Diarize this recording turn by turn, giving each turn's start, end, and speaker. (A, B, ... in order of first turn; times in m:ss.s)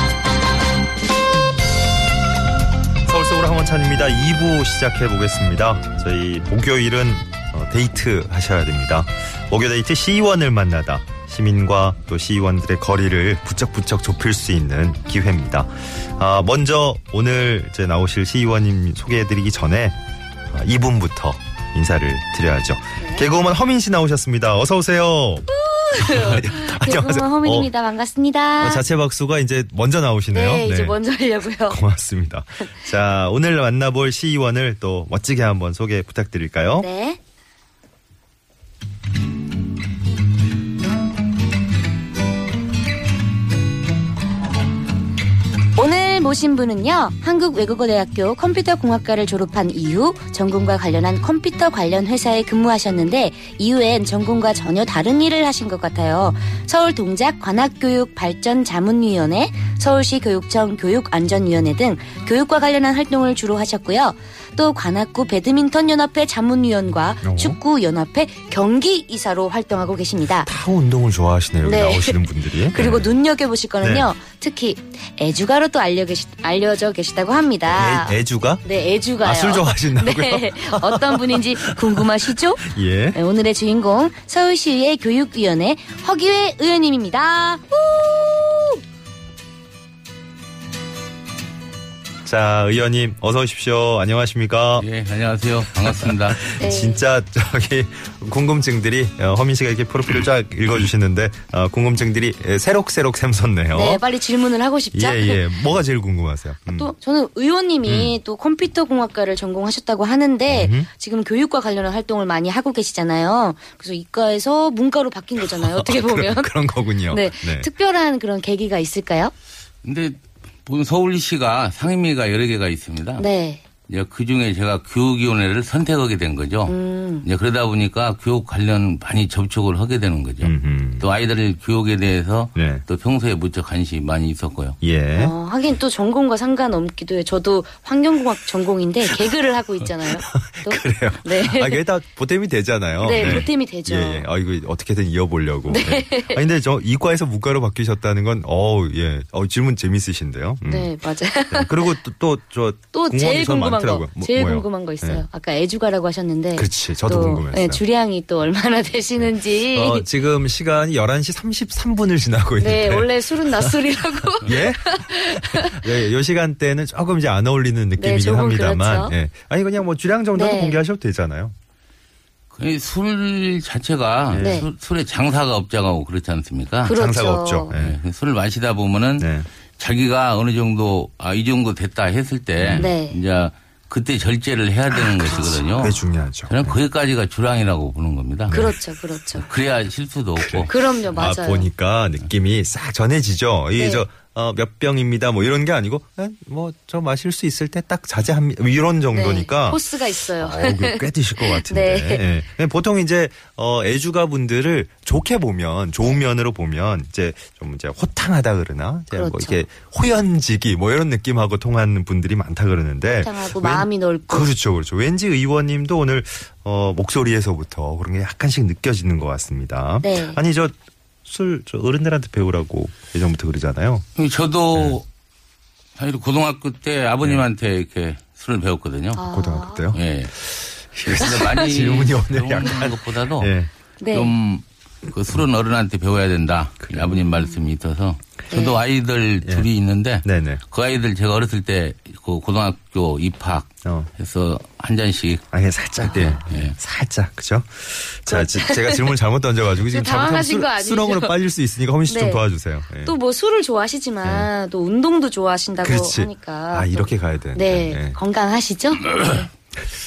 0:03.1-0:20.0 A
0:20.5-0:27.7 A
0:23.0-0:23.3 B
0:25.5-0:28.8 B
0:28.6-0:31.0 A
0:30.3-0:31.8 B
0:31.6-0:36.9 A
0:36.8-0:37.2 B
0:45.8-1:10.5 B
1:07.2-1:07.6 A
1:10.4-1:13.1 A
1:11.6-1:28.8 B
1:13.8-1:14.1 A
1:17.7-1:18.6 A
1:19.2-1:23.2 A
1:32.2-1:34.9 A
1:34.8-1:36.4 C
1:35.8-1:44.0 A
1:36.6-1:37.0 B
1:43.7-1:45.5 B
1:44.9-1:46.9 A
1:46.7-1:56.5 B
1:47.8-1:48.2 A
1:50.5-1:50.9 A
1:55.4-1:57.7 A
1:57.0-1:59.3 B
1:59.8-2:03.2 C
2:03.2-2:03.6 B
2:03.9-2:14.8 C
2:06.7-2:07.3 B
2:10.4-2:11.1 A
2:12.6-2:12.8 A
2:14.8-2:15.4 A
2:15.2-2:21.8 B
2:19.8-2:31.0 A
2:23.0-2:24.3 B
2:25.7-2:26.4 B
2:30.6-2:31.9 B
2:31.5-2:35.3 A
2:32.9-2:40.1 B
2:36.6-2:37.8 A
2:39.2-2:51.5 A
2:42.6-2:45.9 B
2:48.0-2:49.2 B
2:50.3-2:50.8 B
2:52.5-2:56.9 C
2:54.3-2:54.6 A
2:54.4-2:54.7 B
2:56.8-2:57.7 B
2:56.9-2:58.0 A
2:57.7-3:05.9 C
2:59.2-2:59.5 A
3:02.6-3:02.9 A
3:02.8-3:03.2 B
3:04.9-3:06.8 A
3:05.3-3:06.0 B
3:06.5-3:08.6 C
3:08.5-3:09.5 A
3:08.5-3:09.5 B
3:09.4-3:10.7 C
3:10.4-3:40.7 A
3:10.7-3:11.7 B
3:13.8-3:14.1 B
3:19.1-3:22.3 B
3:29.1-3:29.6 B
3:33.1-3:34.5 B
3:40.0-3:40.4 B
3:41.2-3:44.1 A
3:44.2-3:45.1 C
3:46.0-3:49.2 C
3:49.1-3:49.9 B
3:49.2-3:53.7 A
3:49.9-3:50.4 C
3:51.0-3:53.5 C
3:54.0-3:54.3 B
3:54.1-4:05.4 C
3:56.8-3:57.2 A
3:58.5-3:58.8 B
4:00.2-4:00.6 A
4:03.8-4:04.1 A
4:05.5-4:13.1 A
4:06.0-4:06.4 B
4:06.1-4:06.8 C
4:08.3-4:09.0 B
4:09.9-4:11.4 B
4:12.1-4:19.4 B
4:14.2-4:14.5 A
4:15.8-4:18.2 A